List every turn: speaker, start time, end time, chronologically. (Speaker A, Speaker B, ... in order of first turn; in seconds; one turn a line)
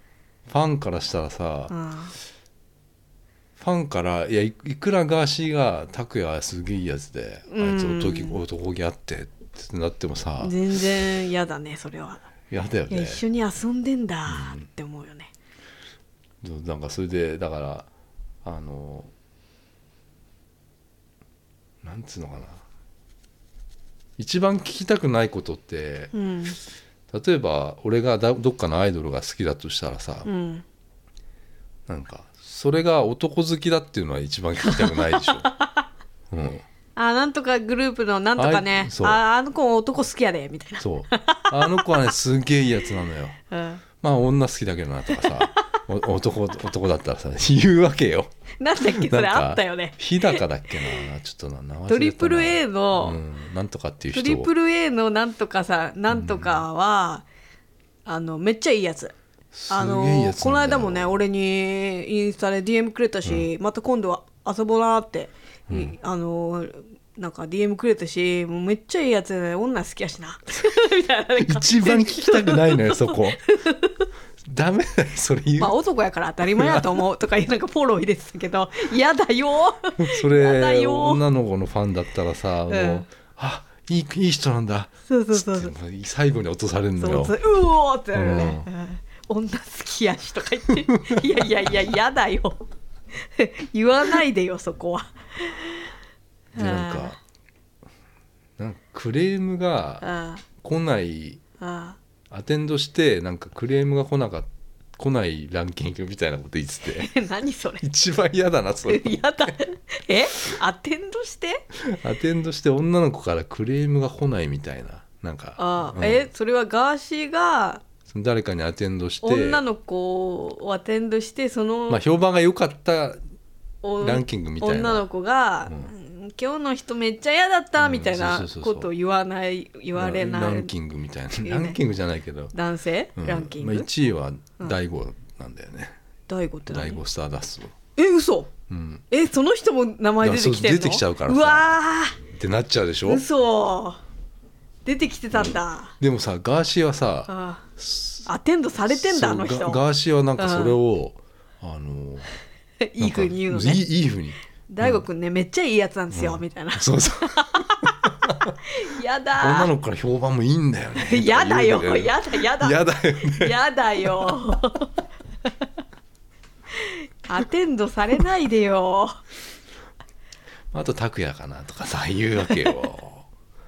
Speaker A: 0.5-1.7
Speaker B: 1.7-2.1
Speaker A: 3.6-10.6
Speaker B: 7.5-8.4
Speaker B: 10.4-12.3
Speaker A: 12.5-13.2
Speaker B: 12.9-15.3
Speaker A: 14.3-14.6
Speaker A: 16.4-17.9
Speaker A: 18.4-19.1
Speaker A: 21.8-22.6
Speaker A: 24.2-26.1
Speaker B: 26.1-26.6
Speaker A: 27.1-30.3
Speaker B: 30.2-30.6
Speaker A: 31.9-35.5
Speaker B: 34.6-35.9
Speaker A: 36.3-36.6
Speaker B: 37.0-42.1
Speaker A: 38.4-39.2
Speaker A: 40.8-43.4
Speaker B: 43.5-43.8
Speaker A: 44.0-54.5
Speaker B: 45.1-45.8
Speaker B: 48.6-51.1
Speaker B: 51.9-53.2
Speaker B: 54.1-57.2
Speaker A: 56.1-56.6
Speaker B: 58.0-59.1
Speaker A: 59.5-61.2
Speaker B: 59.7-74.1
Speaker A: 65.7-65.9
Speaker A: 71.4-73.4
Speaker A: 74.4-75.8
Speaker B: 75.6-81.2
Speaker A: 76.5-77.0
Speaker A: 80.0-87.4
Speaker B: 82.7-83.0
Speaker B: 85.1-85.7
Speaker B: 87.0-95.9
Speaker A: 88.1-88.7
Speaker A: 90.9-91.3
Speaker B: 96.5-97.2
Speaker A: 96.5-97.2
Speaker A: 98.6-100.0
Speaker B: 100.0-100.4
Speaker A: 100.6-101.4
Speaker B: 101.6-102.0
Speaker A: 102.3-107.1
Speaker B: 106.8-107.8
Speaker A: 107.8-109.5
Speaker B: 108.9-111.7
Speaker A: 111.8-116.3
Speaker B: 115.6-117.8
Speaker A: 118.1-119.6
Speaker B: 119.2-122.0
Speaker A: 121.9-123.2
Speaker B: 123.8-130.7
Speaker A: 124.0-125.0
Speaker A: 125.7-125.9
Speaker A: 127.8-128.9
Speaker A: 129.9-132.5
Speaker B: 131.4-131.8
Speaker B: 132.5-133.9
Speaker A: 133.2-135.9
Speaker B: 136.3-137.0
Speaker A: 136.7-137.7
Speaker B: 138.0-138.5
Speaker A: 138.7-139.0
Speaker B: 139.1-142.2
Speaker A: 140.2-143.2
Speaker B: 143.0-144.0
Speaker B: 144.8-146.0
Speaker A: 145.3-148.3
Speaker B: 147.3-147.7
Speaker B: 148.2-149.8
Speaker A: 148.8-152.3
Speaker B: 150.4-150.8
Speaker B: 152.8-153.8
Speaker A: 153.0-155.0
Speaker B: 154.7-159.7
Speaker A: 156.1-158.5
Speaker A: 159.4-164.3
Speaker B: 160.9-164.9
Speaker B: 166.7-169.2
Speaker A: 170.7-173.3